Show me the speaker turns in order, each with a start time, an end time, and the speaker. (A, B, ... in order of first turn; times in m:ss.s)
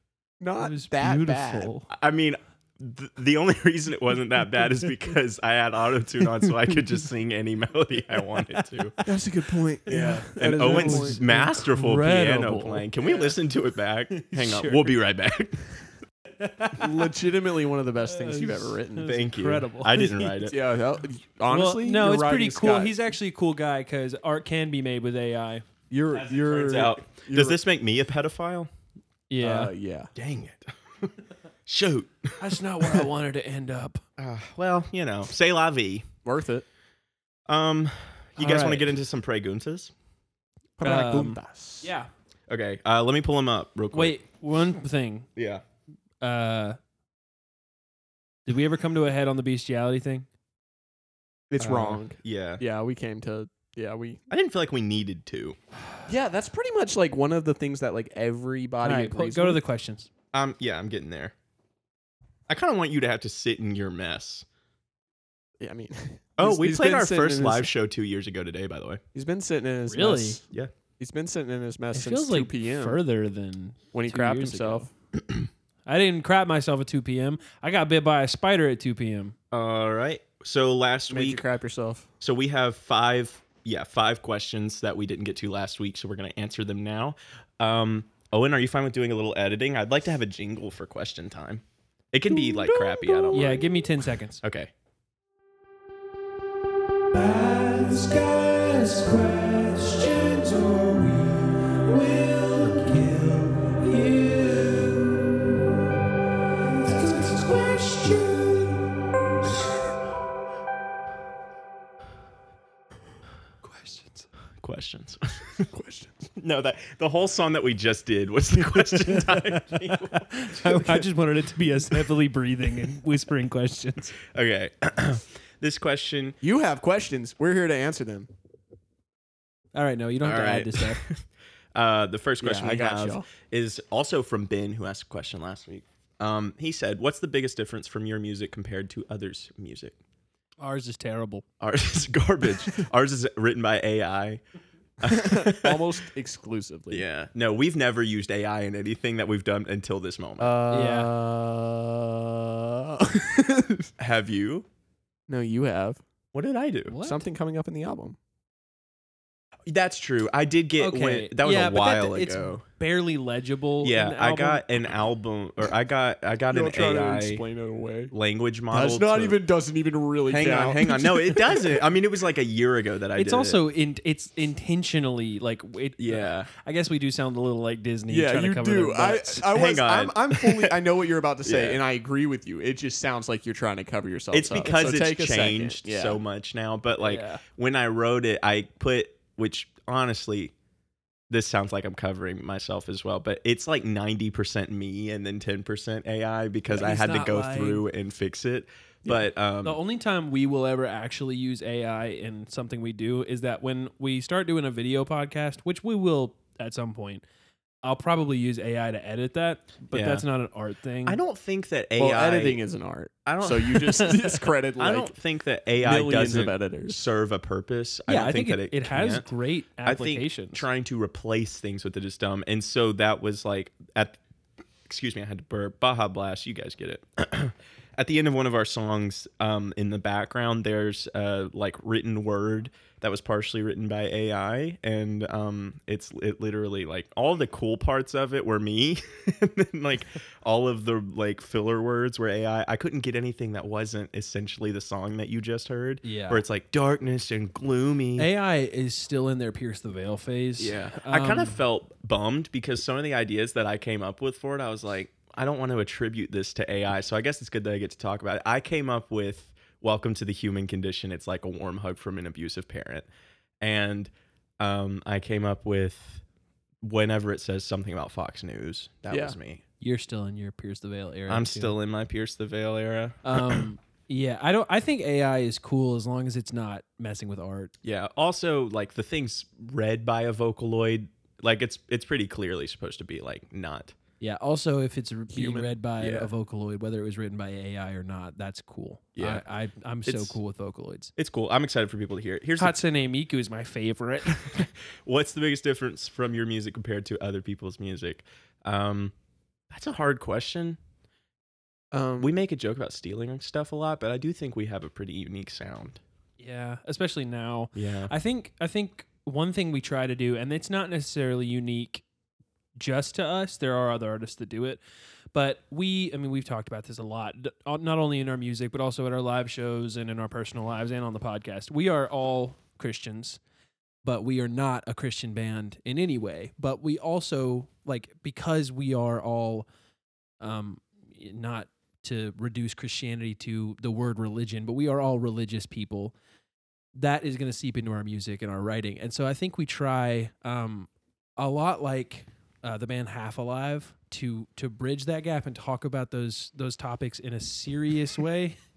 0:00.4-0:01.7 A
0:00.6-0:01.9 B
0:01.9-0:09.0 C
0:09.0-0:11.2 A
0:09.9-0:12.9 B
0:09.9-0:15.7 C
0:14.2-0:14.9 B
0:16.4-0:17.1 B
0:16.8-0:19.1 A
0:18.1-0:20.3 B
0:19.0-0:20.6 C
0:20.4-0:23.0 A
0:21.5-0:25.6 B
0:25.9-0:27.6 A
0:26.1-0:28.7 C
0:29.3-0:29.7 B
0:29.4-0:30.1 A
0:30.2-0:31.1 C
0:31.7-0:33.0 C
0:32.4-0:34.0 B
0:34.2-0:36.1 C
0:36.2-0:36.7 A
0:37.5-0:39.9 C
0:38.4-0:38.9 B
0:40.8-0:41.9 A
0:40.8-0:42.1 B
0:42.5-0:44.2 C
0:43.9-0:45.3 B
0:45.4-0:45.6 C
0:46.2-0:46.8 B
0:48.5-0:50.3 B
0:51.5-0:54.2 A
0:51.6-0:52.6 C
0:54.3-0:55.6 C
0:56.1-0:59.6 A
0:58.8-1:00.1 B
1:00.3-1:01.3 C
1:02.5-1:04.5 C
1:05.6-1:07.7 A
1:06.4-1:09.0 C
1:09.1-1:10.4 A
1:09.9-1:10.4 B
1:11.0-1:13.0 A
1:11.9-1:14.9 B
1:13.9-1:14.9 A
1:15.9-1:19.4 B
1:19.5-1:21.4 C
1:21.1-1:22.1 A
1:22.2-1:33.7 C
1:33.3-1:34.4 B
1:34.4-1:34.7 C
1:37.1-1:45.2 B
1:46.8-1:48.8 B
1:53.6-1:54.3 B
1:54.6-1:55.7 C
1:55.7-1:56.3 A
1:56.4-2:01.0 C
1:58.7-2:04.2 B
2:04.3-2:06.4 C
2:06.4-2:08.3 A
2:09.8-2:11.0 B
2:10.2-2:11.2 C
2:11.8-2:20.0 C
2:12.4-2:13.3 A
2:20.6-2:21.4 B
2:21.6-2:24.4 C
2:25.0-2:25.8 C
2:25.0-2:27.1 A
2:26.9-2:30.6 C
2:30.4-2:33.9 A
2:30.7-2:31.1 B
2:34.0-2:34.7 C
2:35.3-2:36.0 A
2:36.3-2:37.0 C
2:36.9-2:37.2 B
2:37.0-2:38.2 A
2:39.7-2:42.6 C
2:40.8-2:44.6 B
2:43.8-2:47.4 C
2:46.5-2:48.1 A
2:48.1-2:49.4 C
2:48.7-2:51.9 A
2:50.3-2:53.6 C
2:53.2-2:59.5 B
2:56.0-2:56.5 C
2:58.1-3:06.2 A
2:59.5-3:00.7 C
3:01.4-3:01.8 C
3:04.3-3:10.5 C
3:07.0-3:07.4 B
3:11.3-3:19.8 C
3:16.7-3:17.8 B
3:19.6-3:27.2 B
3:27.8-3:31.2 B
3:29.9-3:30.2 C
3:31.1-3:32.6 C
3:32.0-3:35.1 A
3:33.2-3:34.3 C
3:34.8-3:39.3 C
3:35.8-3:37.0 A
3:38.1-3:40.6 B
3:39.8-3:44.2 C
3:44.9-4:08.3 C
4:06.0-4:06.4 B
4:08.2-4:11.6 B
4:10.6-4:23.1 C
4:23.6-4:26.2 C
4:26.8-4:29.6 C
4:29.1-4:29.4 A
4:29.8-4:31.8 B
4:31.3-4:33.6 C
4:33.2-4:37.7 B
4:37.8-4:44.0 C
4:44.2-4:51.1 B
4:45.3-4:46.2 A
4:49.2-4:49.4 C
4:50.1-4:50.4 C
4:51.2-4:52.8 C
4:52.6-4:54.5 B
4:54.3-4:59.1 C
4:59.7-5:00.8 C
5:01.9-5:02.3 A
5:02.2-5:06.0 C
5:06.4-5:12.0 B
5:07.8-5:08.1 C
5:12.8-5:14.8 B
5:15.3-5:23.4 B
5:24.0-5:29.7 B
5:30.4-5:36.1 B
5:37.0-5:48.6 B